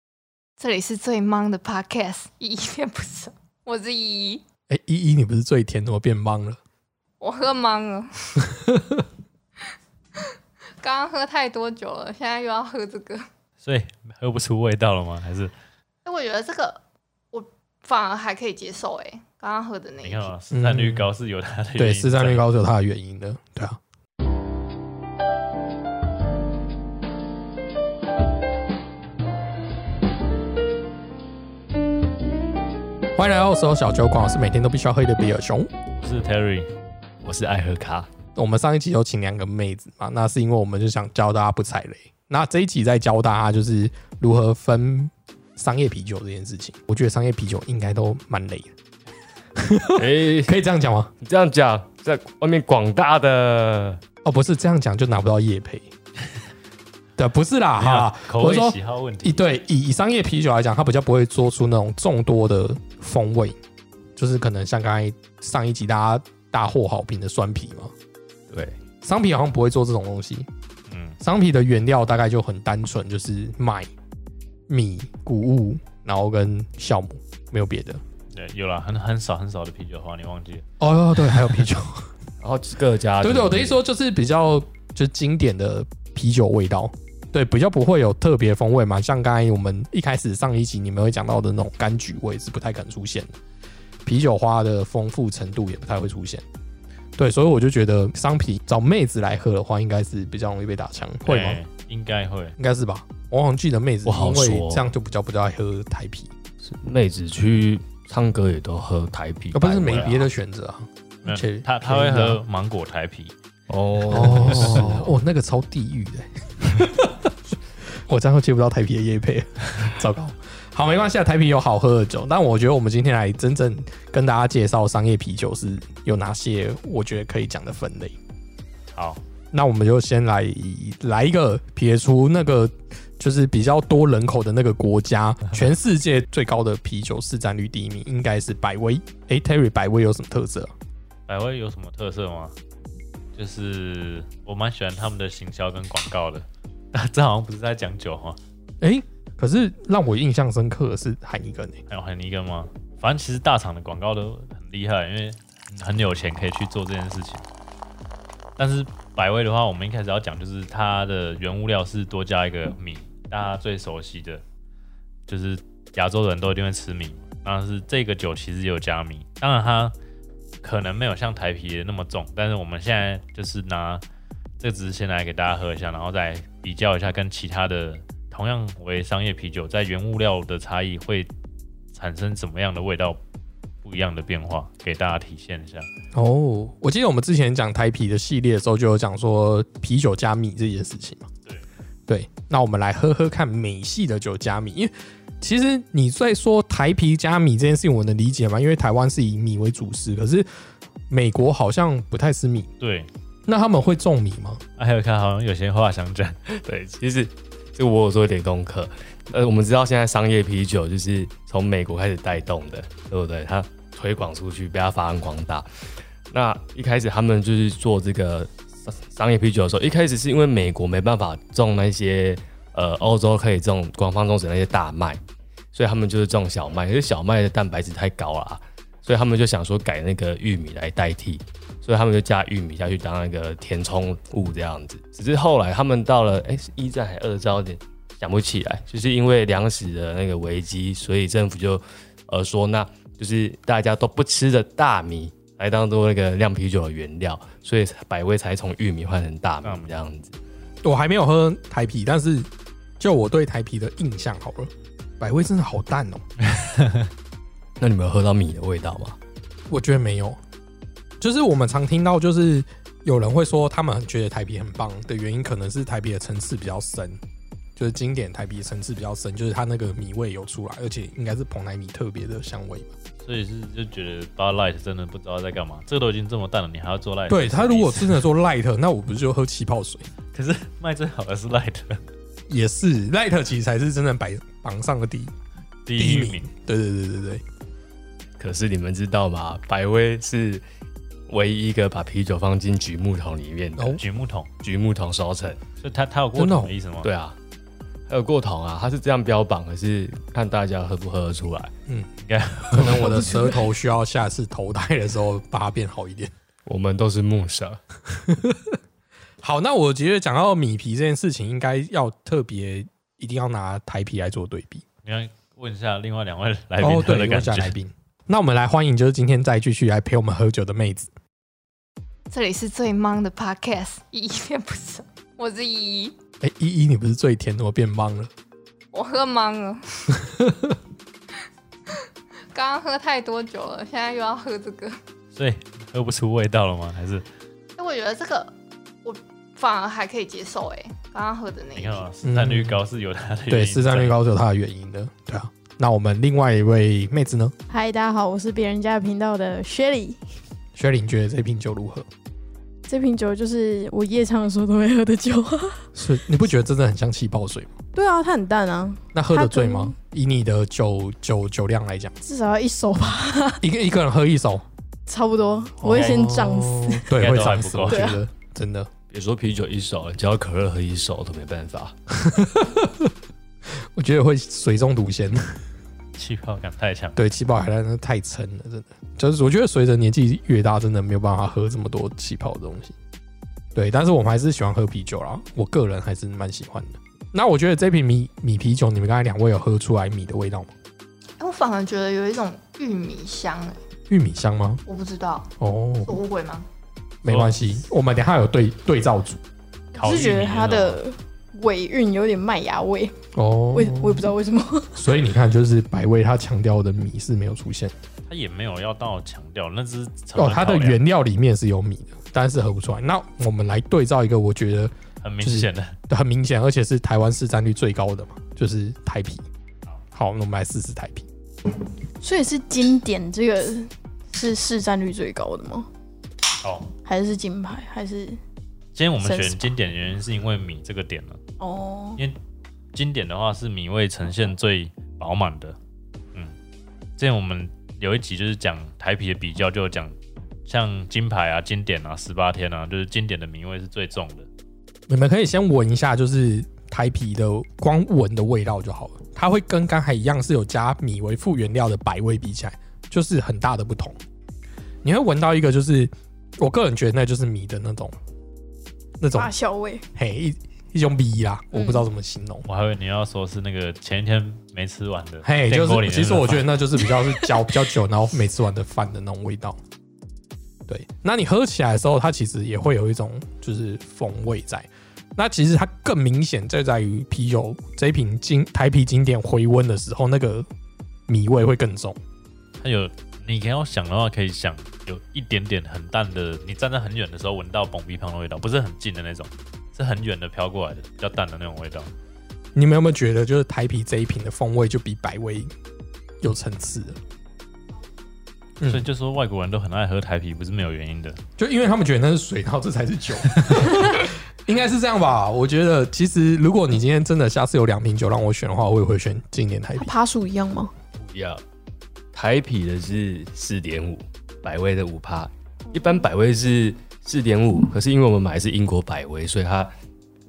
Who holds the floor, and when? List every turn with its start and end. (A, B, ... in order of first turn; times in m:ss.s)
0:00.6-0:04.4 A
0:04.7-0:06.6 B
0:07.2-0:08.5 A
0:08.5-0:09.0 B
0:10.2-0:13.2 A
0:13.6-0:15.5 C
0:16.0-0:20.3 A
0:20.0-0:22.4 C
0:20.5-0:21.1 B
0:21.8-0:23.8 B
0:33.2-0:35.7 B
0:36.0-0:36.7 C
0:37.2-0:38.1 D
0:38.4-0:48.7 B
0:49.6-0:51.1 B
0:50.0-0:50.5 D
0:51.2-0:54.0 D
0:54.2-0:55.9 B
0:57.2-1:03.6 B
0:57.8-0:59.4 C
1:04.2-1:07.9 B
1:08.5-1:08.7 D
1:09.0-1:10.5 B
1:10.9-1:11.2 C
1:11.2-1:13.9 B
1:14.7-1:18.0 B
1:18.3-1:20.6 C
1:20.8-1:22.1 B
1:22.4-1:23.8 D
1:23.2-1:33.3 B
1:34.0-1:36.4 B
1:37.2-1:41.6 B
1:41.2-1:42.6 C
1:42.6-1:46.3 B
1:44.0-1:44.9 D
1:46.6-1:50.2 D
1:49.5-1:52.4 B
1:51.2-1:53.3 C
1:53.7-1:55.1 D
1:54.1-1:57.3 B
1:54.5-1:54.9 C
1:57.9-2:08.2 B
2:08.9-2:09.2 C
2:09.5-2:20.7 B
2:21.3-2:22.5 C
2:23.4-2:28.4 C
2:28.8-2:31.8 B
2:31.9-2:37.4 C
2:38.6-2:44.4 C
2:45.3-2:49.9 C
2:50.6-2:54.0 C
2:54.6-3:01.3 C
3:01.9-3:03.2 C
3:03.8-3:05.9 C
3:06.1-3:11.3 B
3:12.1-3:20.5 B
3:21.1-3:22.7 B
3:22.8-3:23.1 C
3:23.5-3:24.6 B
3:24.8-3:26.4 C
3:26.5-3:45.2 D
3:45.7-4:10.4 D
4:09.6-4:09.9 C
4:10.8-4:12.5 B
4:13.0-4:16.2 B
4:16.5-4:17.1 C
4:17.8-4:19.2 D
4:19.7-4:20.4 B
4:21.2-4:27.2 B
4:27.8-4:32.9 B
4:33.2-4:38.2 C
4:37.3-4:40.1 B
4:40.3-4:42.0 C
4:42.5-4:45.3 B
4:45.8-4:46.5 C
4:46.0-4:47.4 B
4:48.4-4:50.6 D
4:51.3-4:54.0 D
4:54.0-4:54.5 C
4:54.6-4:55.6 D
4:55.8-4:57.1 C
4:56.4-4:56.7 B
4:57.0-4:57.4 D
4:58.1-5:01.7 D
5:02.2-5:03.5 C
5:02.7-5:06.3 B
5:06.6-5:07.8 D
5:08.2-5:08.6 B
5:09.4-5:14.8 B
5:15.0-5:17.7 C
5:16.8-5:21.1 B
5:22.3-5:26.1 A
5:26.4-5:28.3 B
5:28.9-5:30.2 A
5:30.2-5:30.8 B
5:31.9-5:35.0 A
5:35.3-5:37.2 C
5:37.8-5:42.0 A
5:41.7-5:44.2 C
5:42.2-5:42.8 B
5:43.5-5:47.5 B
5:47.7-5:50.2 E
5:50.7-5:52.1 B
5:52.9-5:55.8 E
5:55.9-5:57.7 B
5:57.9-5:59.9 E
5:59.1-6:02.2 B
6:02.2-6:03.6 E
6:03.6-6:04.6 B
6:05.1-6:07.1 E
6:05.8-6:08.9 B
6:05.9-6:06.3 C
6:07.1-6:08.2 C
6:07.9-6:08.2 E
6:09.1-6:11.9 D
6:12.1-6:13.1 B
6:13.8-6:15.6 B
6:16.2-6:17.2 C
6:17.2-6:22.9 B
6:23.7-6:30.7 B
6:31.4-6:33.8 A
6:34.1-6:34.8 B
6:34.9-6:35.5 A
6:35.6-6:36.2 B
6:36.0-6:36.6 A
6:37.2-6:39.4 B
6:37.2-6:37.7 C
6:39.9-6:41.0 C
6:40.0-6:43.1 E
6:43.3-6:44.2 B
6:43.7-6:45.0 E
6:45.0-6:47.9 B
6:48.3-6:51.0 C
6:50.4-6:59.4 B
6:55.2-6:55.9 C
7:00.1-7:01.3 B
7:02.2-7:05.9 E
7:06.6-7:06.9 C
7:07.0-7:08.4 E
7:08.9-7:11.4 C
7:09.2-7:09.7 E
7:11.6-7:12.2 E
7:12.9-7:15.8 C
7:17.2-7:20.1 C
7:20.7-7:24.5 C
7:25.1-7:34.2 B
7:35.0-7:38.1 B
7:39.2-7:39.5 B
7:39.3-7:40.1 E
7:40.1-7:42.6 B
7:41.7-7:42.0 E
7:42.6-7:46.7 C
7:45.4-7:49.8 B
7:50.9-8:00.7 B
8:01.3-8:02.2 B
8:02.8-8:12.1 C
8:12.7-8:15.7 B
8:16.4-8:17.2 B
8:18.8-8:21.4 C
8:21.6-8:30.1 B
8:23.7-8:24.0 C
8:30.0-8:30.9 E
8:31.2-8:31.6 D
8:32.3-8:39.9 D
8:35.9-8:36.2 E